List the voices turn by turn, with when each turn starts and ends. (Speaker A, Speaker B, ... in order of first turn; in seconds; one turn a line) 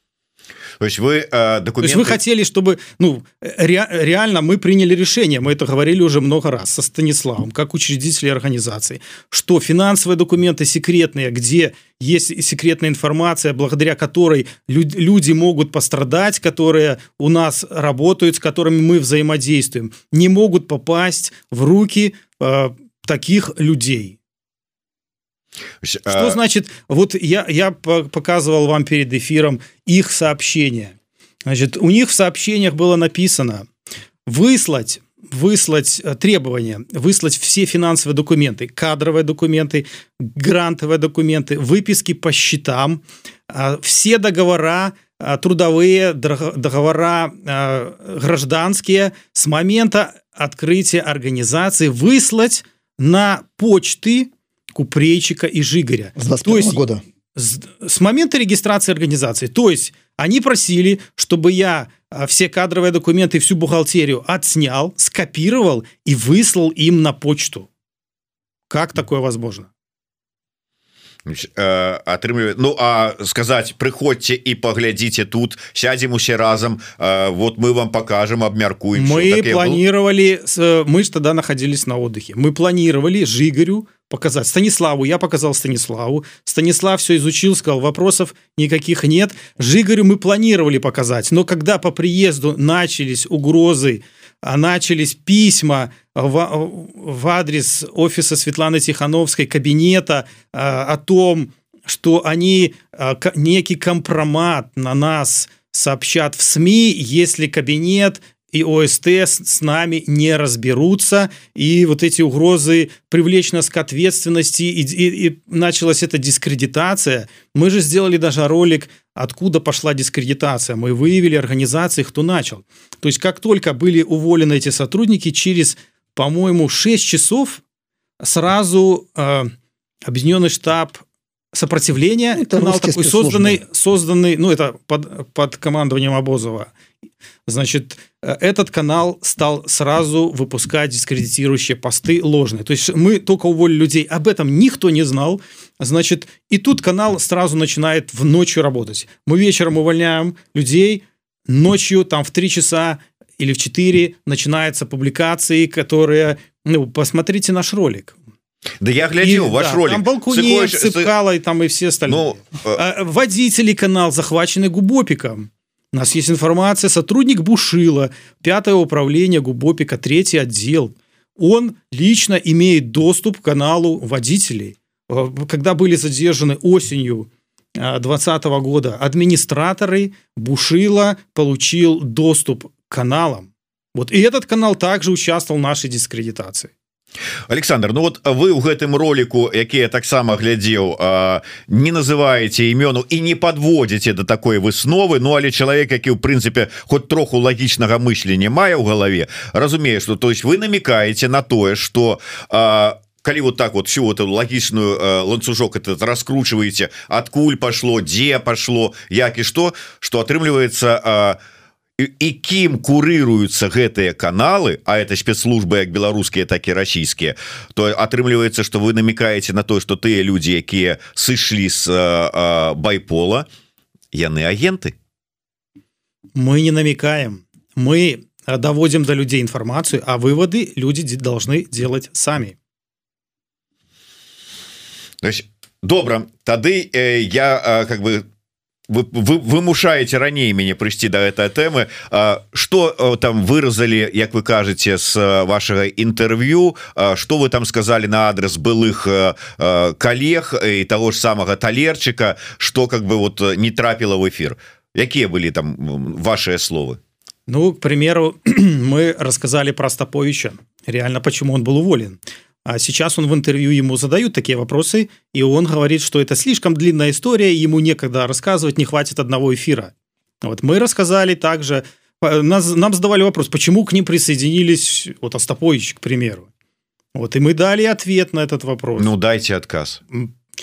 Speaker A: 0.8-2.2
Speaker B: 1.8-24.2
Speaker A: 25.8-26.4
Speaker B: 26.1-30.9
Speaker B: 31.4-33.7
Speaker B: 34.3-56.8
Speaker C: 56.2-57.0
Speaker B: 57.4-67.7
Speaker B: 68.7-69.7
Speaker A: 71.2-79.8
Speaker B: 78.9-127.6
Speaker B: 128.2-129.5
Speaker B: 130.1-136.7
Speaker C: 132.3-133.6
Speaker B: 137.5-158.1
Speaker A: 158.8-161.1
Speaker B: 159.2-186.7
Speaker A: 162.1-162.8
Speaker A: 187.5-211.4
Speaker A: 212.0-223.5
Speaker A: 224.1-224.9
Speaker B: 226.3-232.6
Speaker A: 235.2-238.2
Speaker A: 238.9-257.0
Speaker B: 257.5-269.9
Speaker B: 270.4-276.5
Speaker B: 277.1-279.1
Speaker A: 279.0-280.0